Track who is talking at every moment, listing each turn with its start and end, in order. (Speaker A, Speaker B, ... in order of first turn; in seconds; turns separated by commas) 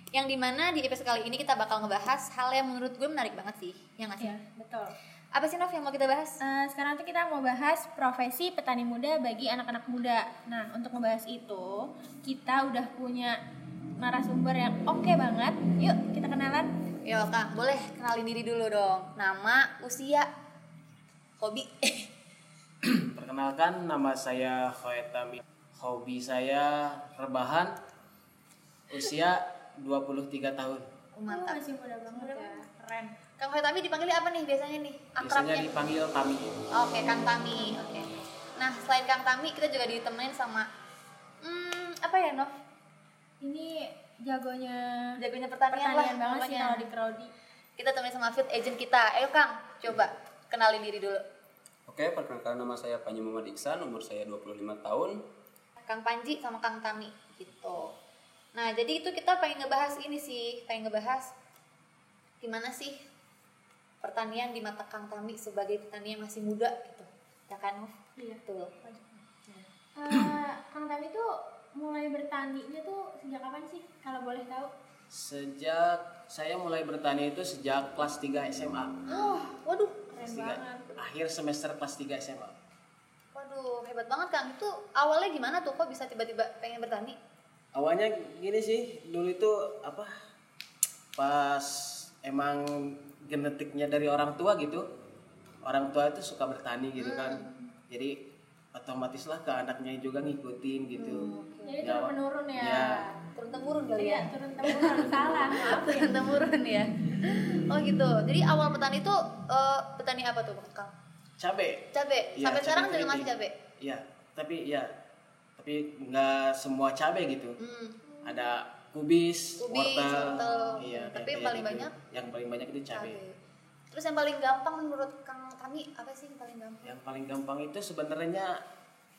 Speaker A: 0.1-4.3, Speaker B: 4.2-4.9, Speaker A: 5.3-6.4, Speaker B: 6.4-13.3, Speaker B: 14.0-16.7, Speaker A: 17.0-20.3, Speaker A: 21.4-22.1, Speaker C: 22.8-27.7, Speaker C: 28.9-30.9, Speaker A: 31.1-35.7, Speaker B: 31.3-32.8, Speaker C: 35.2-36.5, Speaker A: 36.7-40.7, Speaker A: 41.4-42.5, Speaker B: 43.4-44.8, Speaker A: 45.2-46.9, Speaker B: 45.7-47.3, Speaker A: 47.8-51.2, Speaker D: 51.9-55.2, Speaker A: 55.9-57.9, Speaker A: 58.5-61.3, Speaker A: 62.4-63.0, Speaker A: 64.0-67.9, Speaker B: 68.2-74.7, Speaker A: 68.5-68.7, Speaker C: 75.1-79.0, Speaker A: 79.1-80.0, Speaker B: 79.1-79.5, Speaker B: 80.1-80.9, Speaker C: 80.2-82.5, Speaker A: 83.3-87.2, Speaker C: 87.7-90.1, Speaker C: 91.2-94.8, Speaker C: 95.6-98.2, Speaker A: 97.0-97.6, Speaker C: 98.7-101.3, Speaker A: 101.0-101.8, Speaker B: 101.6-103.2, Speaker C: 101.8-103.0, Speaker A: 103.3-110.9, Speaker B: 104.0-106.1, Speaker C: 104.7-105.6, Speaker C: 111.4-111.8, Speaker A: 111.9-113.5, Speaker C: 112.3-114.9, Speaker C: 115.6-117.5, Speaker A: 117.6-118.0, Speaker B: 118.1-118.3, Speaker C: 118.2-123.2, Speaker A: 119.6-122.0, Speaker B: 120.3-120.8, Speaker A: 122.9-123.4, Speaker A: 123.9-126.9, Speaker C: 126.8-128.6